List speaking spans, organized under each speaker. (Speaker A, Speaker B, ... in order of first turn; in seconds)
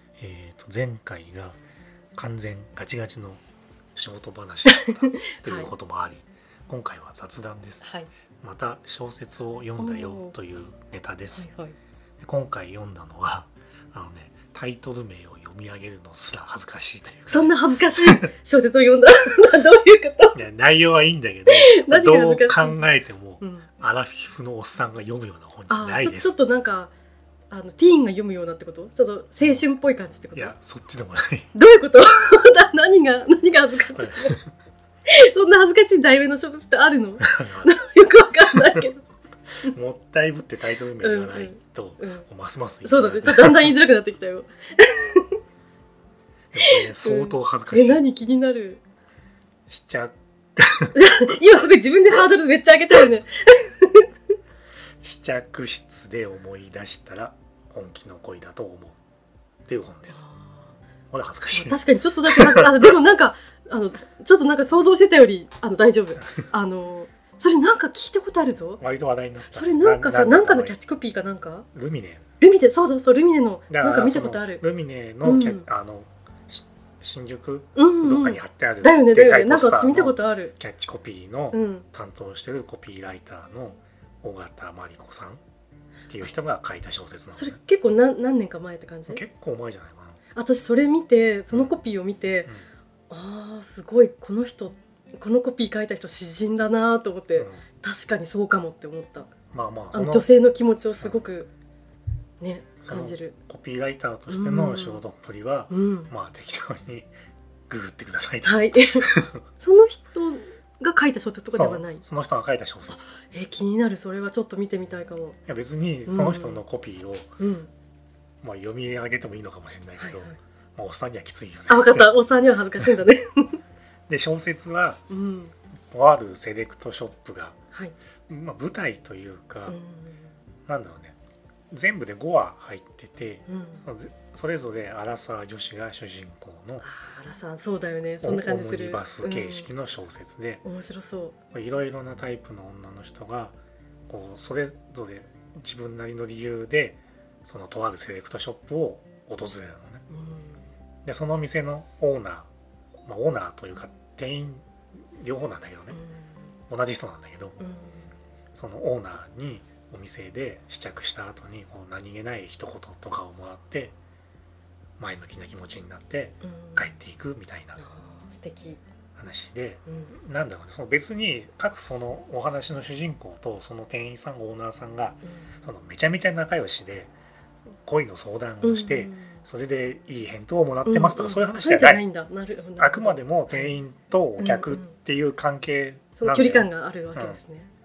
Speaker A: 0.2-1.6, 2.1-3.4, 3.9-7.9, 8.4-11.5, 12.2-18.2, 20.3-26.3, 30.3-31.5, 33.9-34.5, 37.2-37.7, 39.7-43.8, 46.5-48.0, 49.7-51.0, 55.0-59.0, 59.7-60.2, 61.1-61.8, 62.3-62.7, 68.8-70.8, 71.7-72.2, 73.7-85.4, 86.1-87.6, 89.1-90.2, 97.3-97.6, 99.5-100.3, 102.8-107.1, 107.7-109.4, 111.5-113.1, 115.5-117.3, 118.4-122.1, 124.1-125.0, 125.9-127.6, 128.3-129.8, 130.7-131.2, 131.7-136.9, 138.2-140.6, 141.5-143.6, 144.1-150.0, 151.0-152.5, 153.0-156.0, 156.7-157.6, 158.5-163.9, 165.0-167.8, 169.2-177.1, 177.8-182.0, 182.8-187.4
Speaker B: 4.7-5.7, 7.8-8.1, 9.8-10.3, 11.3-11.7, 17.3-20.4, 21.5-22.8, 23.4-23.7, 25.7-26.9, 27.5-30.5, 31.5-34.4, 35.1-39.0, 41.0-42.2, 42.8-45.3, 46.6-48.8, 50.9-54.1, 60.1-60.7, 61.5-68.8, 69.5-71.7, 72.4-74.6, 75.2-75.7, 77.7-80.5, 81.5-81.8, 87.3-89.2, 90.3-92.5, 93.1-99.3, 99.9-101.5, 102.4-103.3, 104.3-105.0, 105.7-106.1, 108.4-109.1, 109.6-112.0, 112.9-115.4, 116.0-116.6, 117.4-117.7, 120.0-120.4, 121.7-123.6, 125.1-125.5, 129.7-130.3, 133.5-133.8, 136.8-139.7, 140.6-141.3, 150.1-150.6, 155.9-156.3, 157.6-158.1, 166.4-166.9, 167.8-168.8, 169.9-170.1, 178.6-179.4, 180.8-183.8, 184.4-184.9, 186.2-187.7